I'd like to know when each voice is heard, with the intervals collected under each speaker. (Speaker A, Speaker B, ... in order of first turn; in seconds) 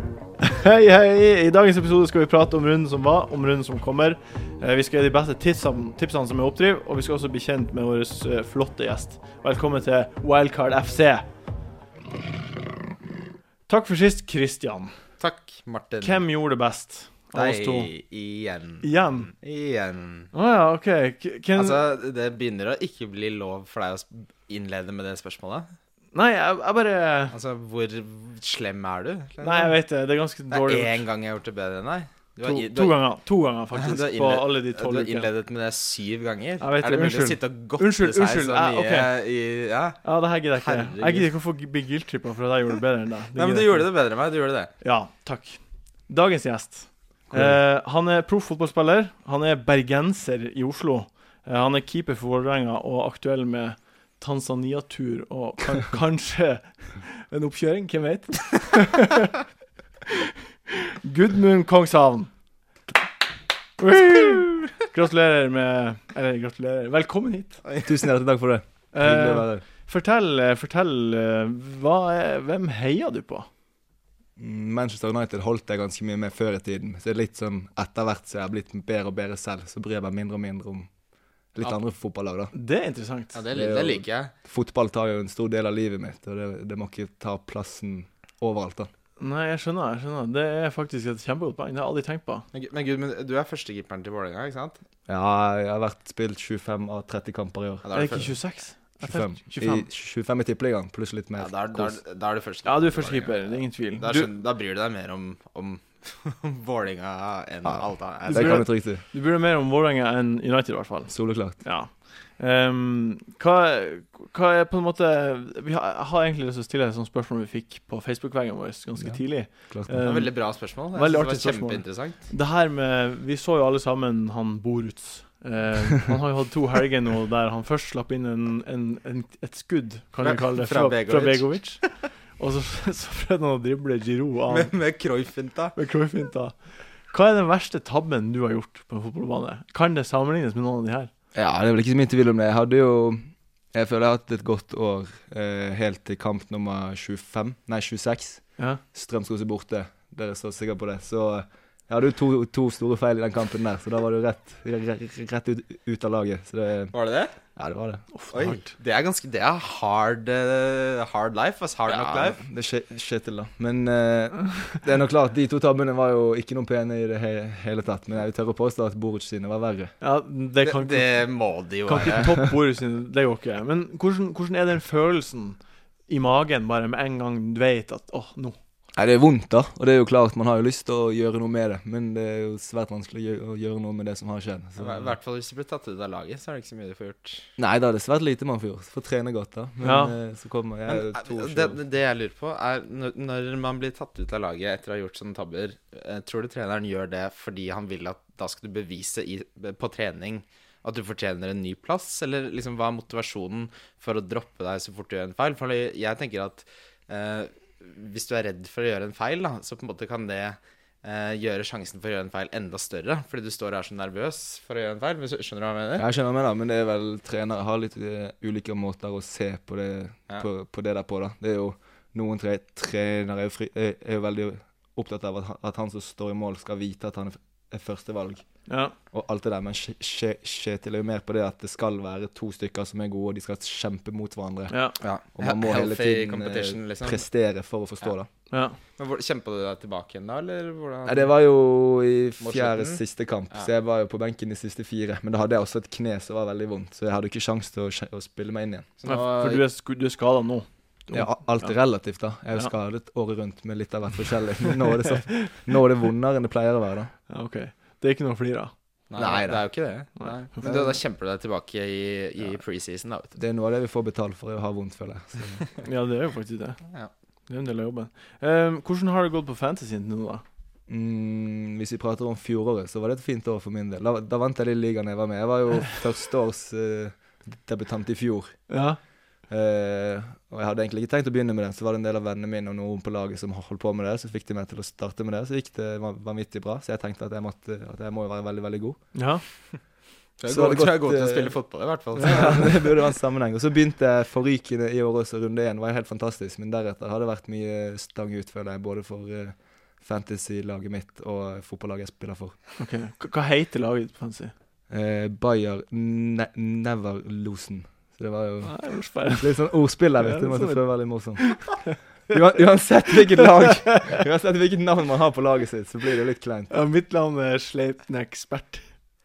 Speaker A: 0.4-11.2, 13.7-14.9, 16.0-17.9, 18.8-19.3, 20.3-21.8, 26.1-27.4, 29.4-31.0, 32.4-35.3, 36.6-39.1, 40.0-43.9, 44.8-59.3, 60.7-62.3, 63.8-67.6, 68.9-73.5, 82.5-83.4, 89.2-92.5, 97.9-99.9, 102.6-104.3, 108.2-134.7, 135.8-136.5, 137.1-141.1, 158.1-158.7, 170.0-171.2, 171.8-178.6, 189.8-190.2, 228.7-228.9, 234.7-234.9, 238.5-238.8, 249.0-251.7, 255.1-255.6, 257.3-258.7, 260.2-260.9, 265.8-266.8, 267.5-270.4, 278.7-279.0, 289.1-289.4, 302.8-304.5, 308.6-310.9, 311.4-312.3, 316.7-318.9
Speaker B: 15.2-16.2, 17.3-20.3, 21.5-25.7, 27.3-29.8, 30.5-33.1, 33.7-41.3, 43.3-44.7, 83.3-84.3, 92.5-94.8, 97.8-98.3, 101.4-108.6, 120.0-122.2, 130.2-131.6, 134.5-135.7, 156.9-157.3, 158.3-162.4, 170.6-172.4, 184.8-187.5, 190.9-216.1, 235.0-237.2, 239.0-241.3, 242.4-243.0, 249.0-249.6, 259.1-263.3, 290.4-292.9
Speaker C: 47.3-47.6, 67.8-69.6, 74.4-80.9, 81.5-82.5, 83.5-88.9, 95.1-97.9, 99.0-102.0, 107.6-109.0, 111.1-111.6, 119.0-120.0, 141.3-148.4, 148.9-156.9, 157.6-158.0, 161.9-169.9, 178.9-185.1, 187.6-191.8, 216.0-228.5, 229.1-234.8, 235.3-238.3, 241.1-248.9, 251.1-257.1, 259.2-259.6, 263.4-265.6, 270.9-278.6, 279.5-289.0, 290.5-291.5, 292.2-302.5, 304.9-311.8, 312.3-316.7